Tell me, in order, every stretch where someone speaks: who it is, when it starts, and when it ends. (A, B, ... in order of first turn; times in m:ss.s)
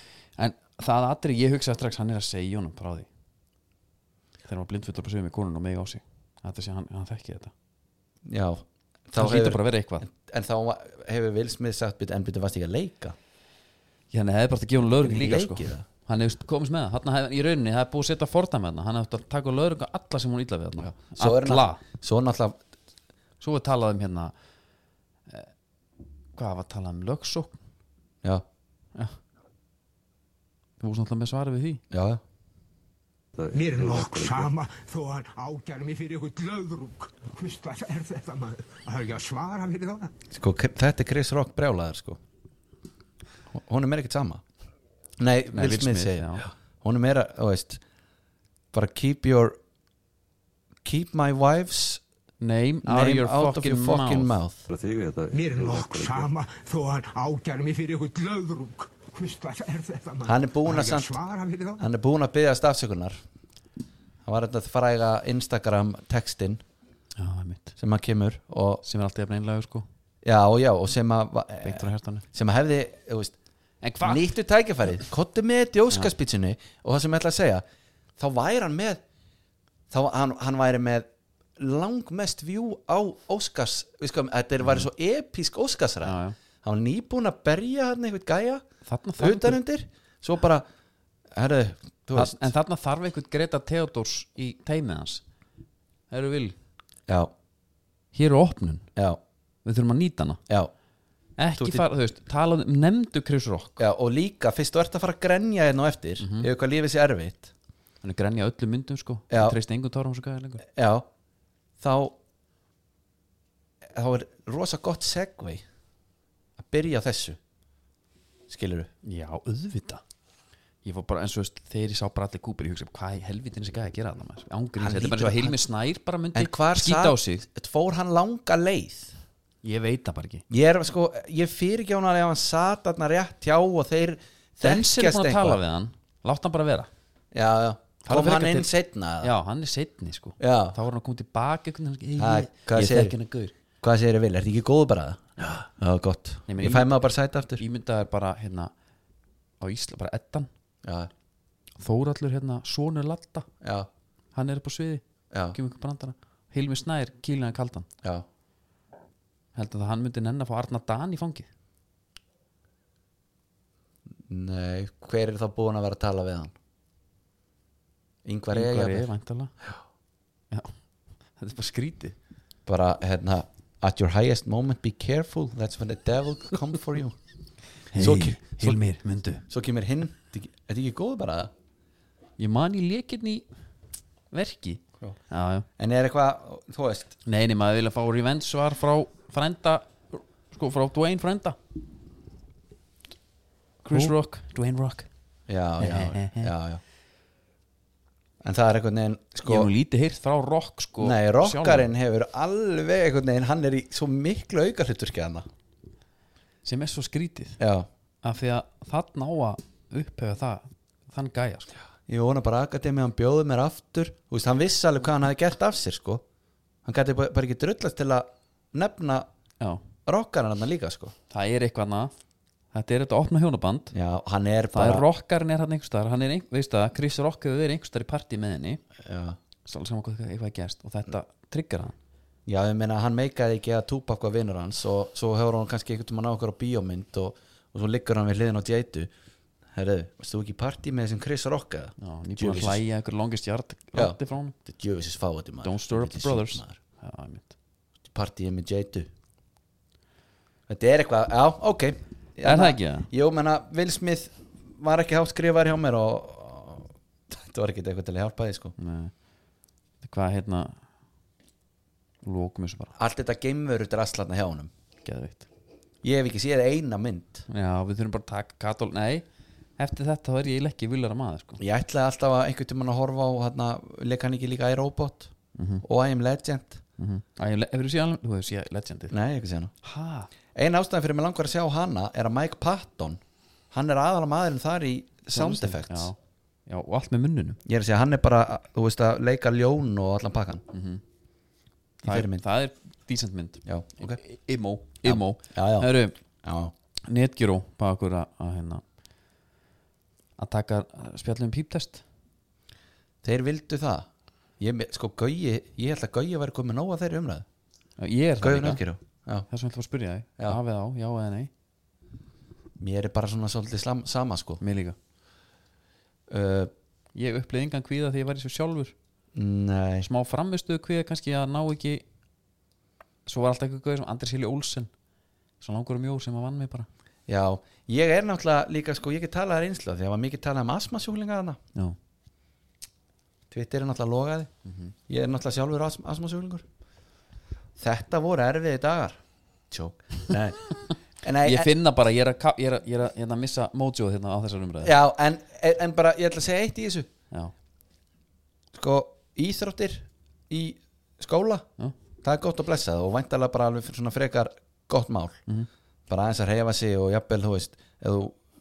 0:00.4-0:03.1 A
0:04.4-0:07.5 A
0:08.2-0:13.2 B
0:09.2-0:10.1 A
0:14.1-0:21.8 A
0:14.8-0:15.8 B
0:20.8-0:22.6 B
0:23.4-0:24.3 A
0:26.4-0:27.6 A
0:30.8-0:31.8 A
0:31.9-0:32.2 B
0:33.4-0:34.5 C
0:33.5-0:40.1 D
0:40.3-0:42.2 B
0:43.5-0:44.4 B
0:45.2-0:47.8 B
0:45.5-0:46.5 A
0:48.7-0:49.6 B
0:50.8-0:52.0 B
0:52.4-0:54.3 A
0:52.9-0:54.7 B
0:54.7-0:56.3 C
0:55.3-1:01.9 D
1:00.3-1:01.2 B
1:01.8-1:03.2 B
1:04.2-1:06.6 B
1:07.2-1:07.8 A
1:07.8-1:08.8 B
1:08.8-1:09.8 A
1:10.2-1:13.4 B
1:11.6-1:12.2 A
1:13.8-1:14.2 A
1:14.0-1:17.6 B
1:18.2-1:19.0 B
1:19.9-1:28.6 B
1:26.0-1:26.4 A
1:28.9-1:29.6 A
1:29.2-1:30.6 B
1:31.3-1:32.5 B
1:32.1-1:35.2 A
1:36.1-1:36.6 A
1:38.1-1:38.9 A
1:39.6-1:40.4 A
1:41.4-1:43.8 A
1:41.6-1:41.9 B
1:43.8-1:47.5 B
1:46.2-1:46.5 A
1:48.0-1:50.6 A
1:49.3-1:49.6 B
1:50.7-1:51.1 B
1:51.8-1:52.2 B
1:53.9-1:55.6 B
1:56.6-1:57.4 B
1:58.5-1:58.9 B
1:59.0-2:00.0 A
2:00.8-2:07.5 A
2:04.8-2:05.6 B
2:06.4-2:09.2 B
2:09.6-2:10.4 A
2:10.5-2:15.6 B
2:14.6-2:16.9 A
2:17.3-2:19.4 B
2:18.0-2:18.7 A
2:19.2-2:23.5 A
2:20.4-2:20.8 B
2:22.2-2:23.1 B
2:23.8-2:27.6 B
2:26.5-2:26.9 A
2:27.6-2:28.7 A
2:29.6-2:30.5 A
2:30.8-2:31.1 B
2:31.8-2:33.5 A
2:33.6-2:33.9 B
2:34.4-2:37.9 A
2:35.3-2:35.6 B
2:39.6-2:41.5 A
2:44.3-2:46.5 B
2:48.2-2:49.1 B
2:48.5-2:49.5 A
2:51.4-2:52.1 A
2:52.6-2:57.2 B
2:57.9-2:59.4 A
2:58.0-2:58.8 B
2:59.5-3:01.5 B
3:02.4-3:03.5 A
3:04.3-3:05.7 A
3:05.8-3:07.2 B
3:07.3-3:11.6 A
3:13.8-3:15.1 A
3:15.5-3:16.8 B
3:15.8-3:16.5 A
3:18.4-3:19.7 B
3:19.4-3:21.9 A
3:21.0-3:25.4 B
3:26.6-3:27.6 A
3:27.6-3:27.9 B
3:28.2-3:31.7 A
3:32.1-3:36.2 B
3:36.8-3:39.3 B
3:40.1-3:41.1 B
3:41.3-3:42.1 A
3:42.7-3:43.9 A
3:43.9-3:45.1 B
3:44.7-3:48.8 A
3:49.0-3:49.4 B
3:49.6-3:52.0 A
3:52.5-3:59.1 B
3:59.7-4:02.8 B
4:02.0-4:04.6 A
4:03.9-4:06.8 B
4:05.6-4:07.5 A
4:08.1-4:09.1 B
4:10.7-4:18.7 B
4:12.4-4:13.1 A
4:18.8-4:19.1 A
4:20.0-4:20.8 A
4:22.2-4:23.0 A
4:23.0-4:24.7 B
4:25.0-4:25.5 A
4:26.0-4:27.5 B
4:27.5-4:29.2 A
4:29.8-4:31.6 A
4:31.6-4:36.8 B
4:35.6-4:35.8 A
4:37.0-4:39.1 A
4:39.1-4:39.7 B
4:39.8-4:40.3 A
4:40.6-4:46.1 B
4:45.3-4:47.6 A
4:47.6-4:50.6 B
4:50.7-4:51.0 A
4:52.0-4:56.2 A
4:52.0-4:52.4 B
4:53.6-4:54.2 B
4:55.0-4:55.9 B
4:56.4-4:56.7 B
4:57.1-4:58.8 A
5:00.4-5:02.0 A
5:03.2-5:04.1 B
5:04.6-5:07.5 B
5:08.0-5:08.8 A
5:08.4-5:09.5 B
5:09.5-5:11.5 A
5:12.8-5:14.6 B
5:14.6-5:15.0 A
5:16.3-5:16.7 B
5:17.1-5:19.0 A
5:19.4-5:20.1 B
5:20.0-5:22.0 A
5:23.3-5:24.9 A
5:25.6-5:26.9 A
5:27.3-5:31.6 B
5:33.5-5:34.5 B
5:34.6-5:34.9 A
5:35.1-5:36.6 B
5:37.8-5:41.7 B
5:41.4-5:45.0 A
5:44.8-5:47.1 B
5:48.7-5:51.7 B
5:52.2-5:55.4 B
5:56.1-5:58.4 B